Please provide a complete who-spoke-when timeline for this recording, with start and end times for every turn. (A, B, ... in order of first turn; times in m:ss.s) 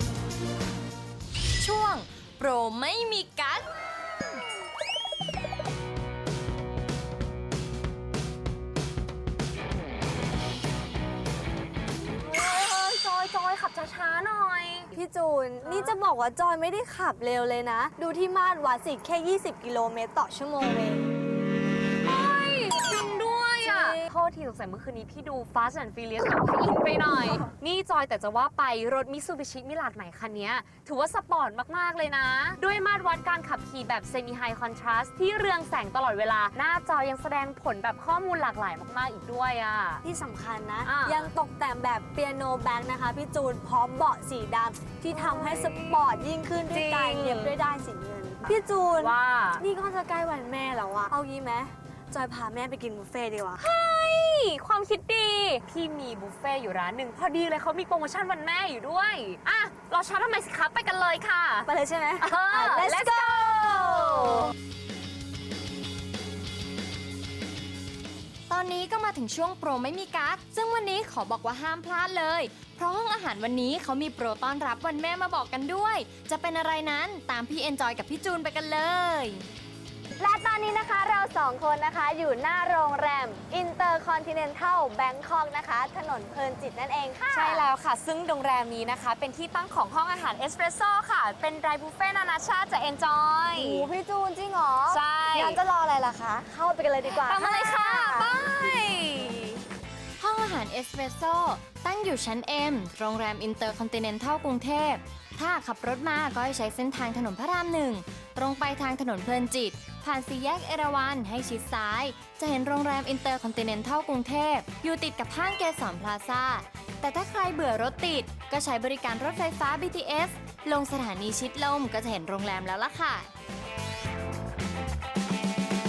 0:01.6-0:03.7 A
0:12.1-0:14.9 B
0:14.9-0:21.1 C
0:15.6-0:16.0 B
0:22.0-0:40.0 B
0:23.6-0:24.0 C
0:40.0-0:53.6 C
0:40.8-0:41.3 B
0:45.1-0:47.6 B
0:49.0-0:49.6 B
0:53.6-1:04.5 B
1:01.6-1:04.5 C
1:08.5-1:19.4 A
1:20.2-1:27.7 C
1:27.2-1:33.9 B
1:33.5-1:38.6 C
1:34.9-1:35.6 B
1:37.1-1:39.6 B
1:40.2-2:03.3 A